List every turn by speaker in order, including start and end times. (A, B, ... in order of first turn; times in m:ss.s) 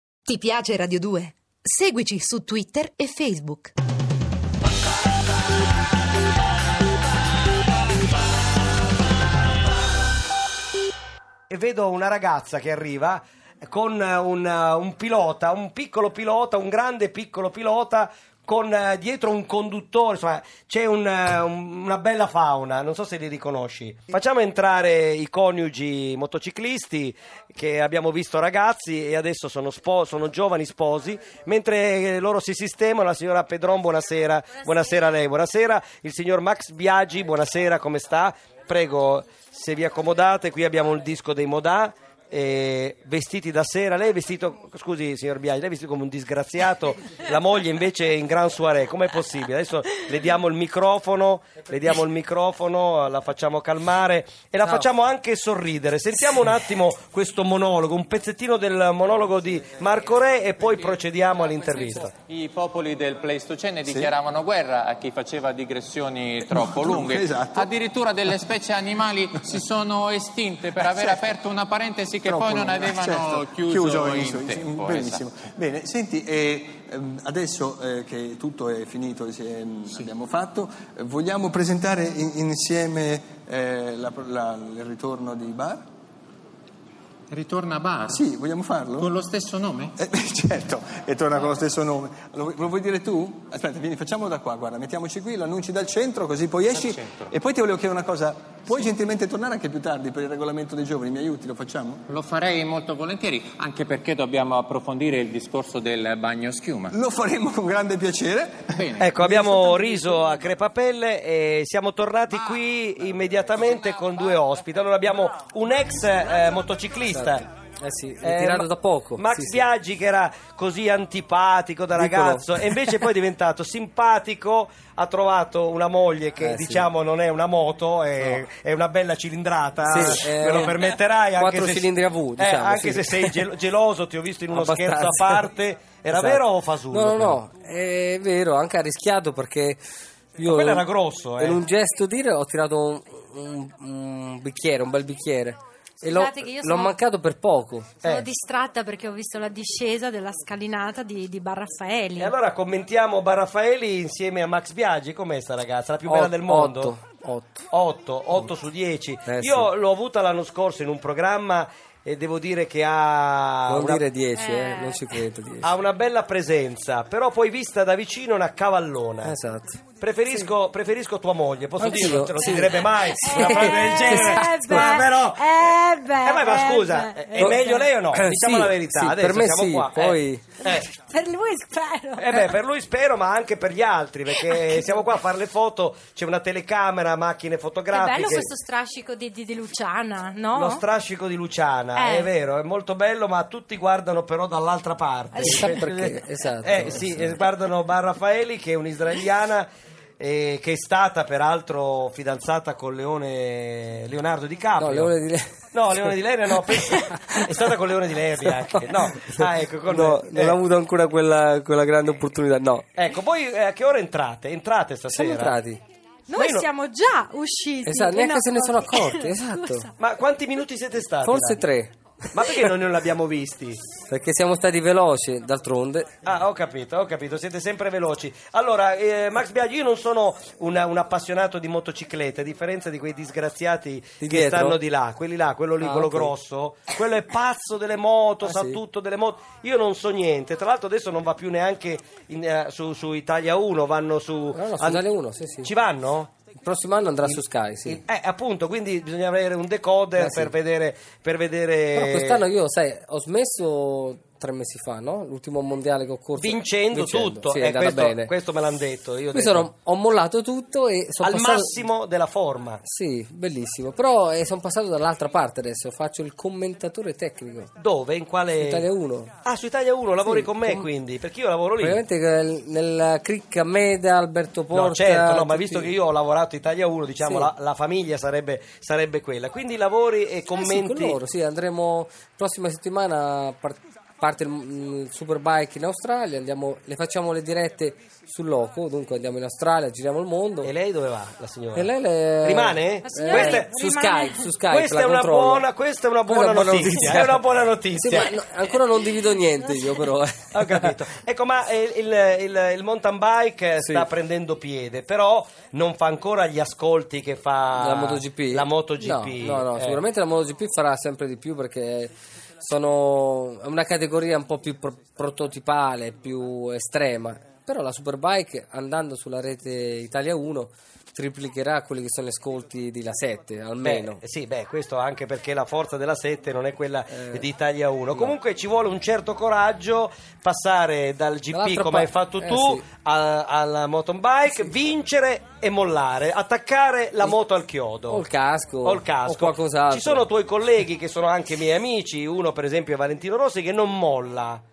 0:00.3-0:03.7 A
0:11.5-1:02.1 B
1:01.3-1:15.3 C
1:03.9-1:04.1 D
1:06.4-1:07.7 D
1:10.8-1:11.2 D
1:12.2-1:25.9 D
1:27.3-1:28.2 C
1:28.1-1:29.1 D
1:29.0-1:30.0 C
1:30.0-1:42.0 D
1:36.7-1:37.2 C
1:42.1-1:47.0 C
1:46.9-1:48.8 D
1:48.8-1:49.8 C
1:49.0-1:57.4 B
1:57.1-1:59.7 E
1:58.2-2:17.4 B
2:02.0-2:03.0 E
2:06.4-2:06.9 E
2:09.8-2:13.4 E
2:14.5-2:15.5 E
2:16.1-2:19.8 E
2:20.4-2:20.9 E
2:20.5-2:21.6 B
2:21.4-2:27.9 E
2:26.0-2:27.0 F
2:28.0-2:32.3 F
2:32.2-2:36.9 B
2:36.1-2:37.7 E
2:37.7-2:44.0 B
2:39.3-2:39.7 E
2:43.7-2:45.7 E
2:44.4-2:45.2 F
2:45.6-2:49.3 B
2:49.2-2:49.8 E
2:50.0-3:00.9 B
2:51.8-2:55.0 E
2:53.2-2:57.9 F
2:58.1-3:00.5 E
3:00.6-3:02.6 F
3:02.2-3:08.5 B
3:04.3-3:04.9 F
3:07.9-3:10.8 F
3:10.5-3:25.1 B
3:12.0-3:12.3 F
3:15.3-3:15.8 F
3:15.4-3:17.3 E
3:24.8-3:26.1 E
3:25.7-3:30.6 B
3:29.9-3:32.9 E
3:33.0-3:35.6 B
3:35.1-3:35.8 E
3:36.3-3:39.9 F
3:36.4-3:36.7 B
3:37.8-3:39.9 E
3:40.0-3:41.6 B
3:41.2-3:42.3 E
3:42.3-3:43.8 B
3:44.1-3:46.1 E
3:46.2-4:05.0 B
3:54.2-3:54.8 E
3:55.8-3:56.3 E
3:58.4-3:58.8 E
4:04.5-4:05.7 E
4:05.6-4:06.3 B
4:06.6-4:08.0 E
4:07.2-4:12.4 B
4:10.2-4:10.5 E
4:11.9-4:18.3 E
4:16.4-4:19.7 B
4:19.3-4:21.8 E
4:21.2-4:22.8 B
4:22.8-4:27.7 E
4:27.8-4:28.9 B
4:28.6-4:29.3 E
4:29.4-4:32.0 B
4:30.2-4:30.9 E
4:31.8-4:35.9 E
4:34.7-4:41.2 B
4:37.2-4:37.5 E
4:40.6-4:50.7 E
4:50.6-4:51.9 B
4:51.7-4:55.7 E
4:52.4-4:53.7 B
4:53.0-4:54.5 F
4:54.7-4:58.3 B
4:56.3-5:00.9 E
5:00.5-5:10.0 B
5:03.8-5:04.1 E
5:07.8-5:24.2 E
5:23.8-5:38.2 B
5:27.1-5:27.4 E
5:31.5-5:32.8 E
5:38.1-5:40.3 E
5:38.8-5:44.6 B